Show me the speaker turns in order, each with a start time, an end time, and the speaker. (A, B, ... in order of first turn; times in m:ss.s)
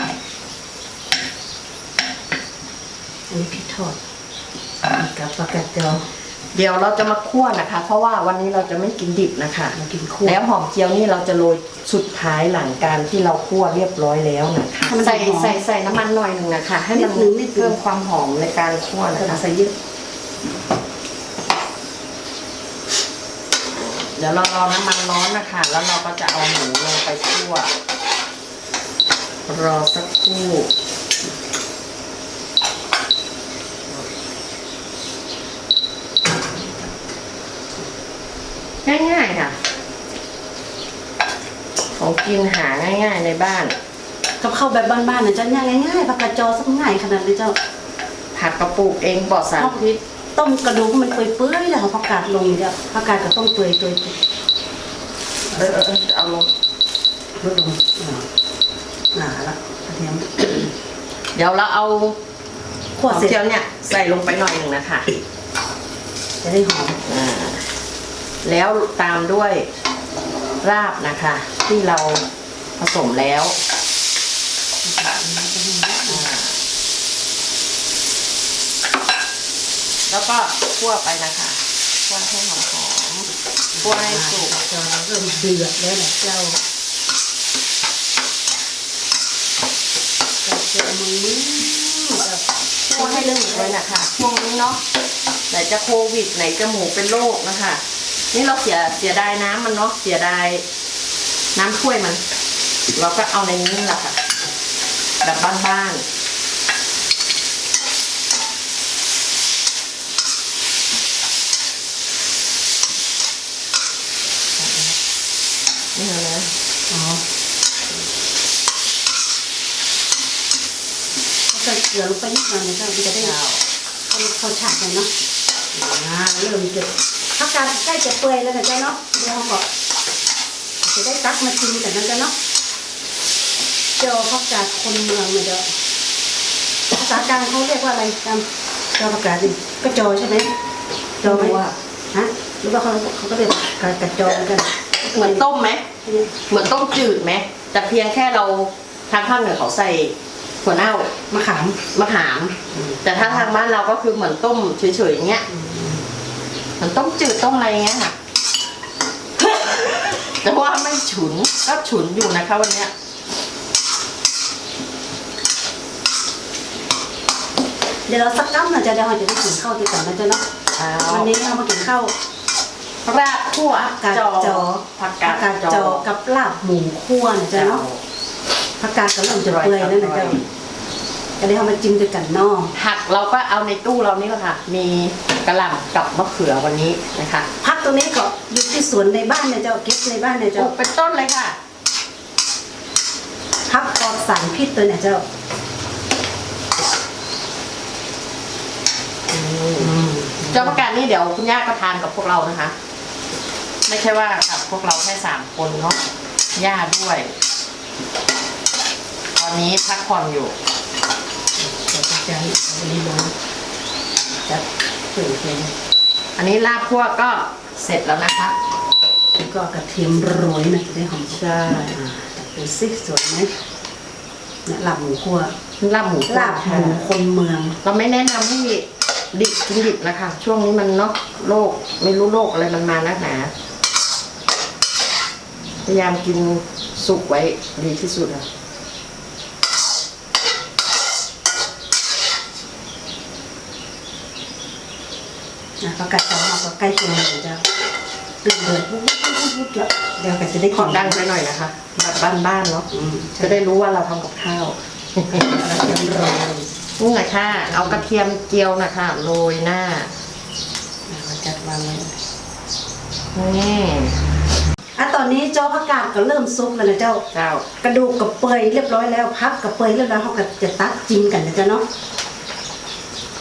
0:03.3-0:04.0 A
0:04.9-0:06.0 A
0:06.5-0:19.4 B
0:09.7-0:10.4 A
0:14.9-0:15.6 A
0:16.9-0:17.8 A
0:19.1-0:19.7 A
0:23.7-0:27.7 B
0:29.5-0:30.7 B
0:38.8-0:39.5 B
0:42.0-0:43.7 B
0:44.4-0:47.6 A
0:48.3-0:50.0 B
0:50.4-0:54.1 A
0:55.5-0:55.8 A
0:55.5-0:56.5 B
0:57.4-0:58.3 A
0:59.1-1:00.7 A
1:01.3-1:02.2 B
1:03.0-1:03.4 A
1:03.0-1:05.1 B
1:06.4-1:07.0 A
1:07.0-1:07.6 B
1:08.4-1:09.6 B
1:10.6-1:12.2 B
1:12.8-1:13.6 B
1:14.8-1:16.2 A
1:16.0-1:16.6 B
1:20.1-1:23.3 B
1:23.7-1:26.6 A
1:23.8-1:24.5 B
1:30.4-1:33.8 A
1:32.8-1:34.8 B
1:35.5-1:37.8 B
1:38.3-1:40.6 B
1:41.5-1:42.2 B
1:42.9-1:44.2 B
1:45.2-1:46.0 B
1:54.6-1:54.9 B
1:55.9-1:56.5 B
1:56.9-1:57.2 A
2:01.5-2:03.3 A
2:03.1-2:03.6 B
2:04.1-2:05.1 A
2:05.7-2:09.6 A
2:10.8-2:12.3 A
2:14.0-2:15.6 A
2:16.9-2:18.4 A
2:19.0-2:20.5 A
2:21.2-2:21.6 A
2:21.2-2:21.7 B
2:22.1-2:25.4 A
2:25.0-2:25.8 B
2:26.0-2:26.3 A
2:26.5-2:31.1 B
2:31.3-2:31.8 A
2:31.9-2:35.4 B
2:32.7-2:33.5 A
2:35.5-2:36.0 A
2:36.8-2:38.1 B
2:39.4-2:42.9 B
2:48.1-2:50.4 A
2:50.7-2:51.3 B
2:51.1-2:52.1 A
2:53.0-2:56.0 B
2:53.7-2:57.8 A
2:57.5-2:58.0 B
2:58.8-3:00.4 A
2:59.4-3:00.4 B
3:01.4-3:02.7 A
3:02.7-3:07.5 B
3:07.6-3:10.7 A
3:10.5-3:11.6 B
3:13.7-3:15.2 A
3:19.3-3:22.7 B
3:19.8-3:20.8 A
3:23.9-3:26.0 B
3:26.6-3:27.3 B
3:29.3-3:30.5 B
3:31.6-3:33.3 A
3:34.4-3:35.7 A
3:36.4-3:38.5 B
3:39.4-3:43.5 A
3:41.3-3:42.0 B
3:44.6-3:45.5 A
3:45.8-3:47.1 B
3:46.3-3:47.8 A
3:47.8-3:53.5 B
3:55.8-3:58.4 B
4:05.8-4:07.6 A
4:08.4-4:11.2 A
4:10.7-4:12.9 B
4:12.9-4:13.6 A
4:13.4-4:15.7 B
4:15.3-4:16.7 A
4:17.0-4:20.1 B
4:17.5-4:18.0 A
4:21.1-4:22.2 A
4:23.3-4:24.1 B
4:25.0-4:27.2 A
4:27.3-4:27.6 B
4:27.8-4:31.8 A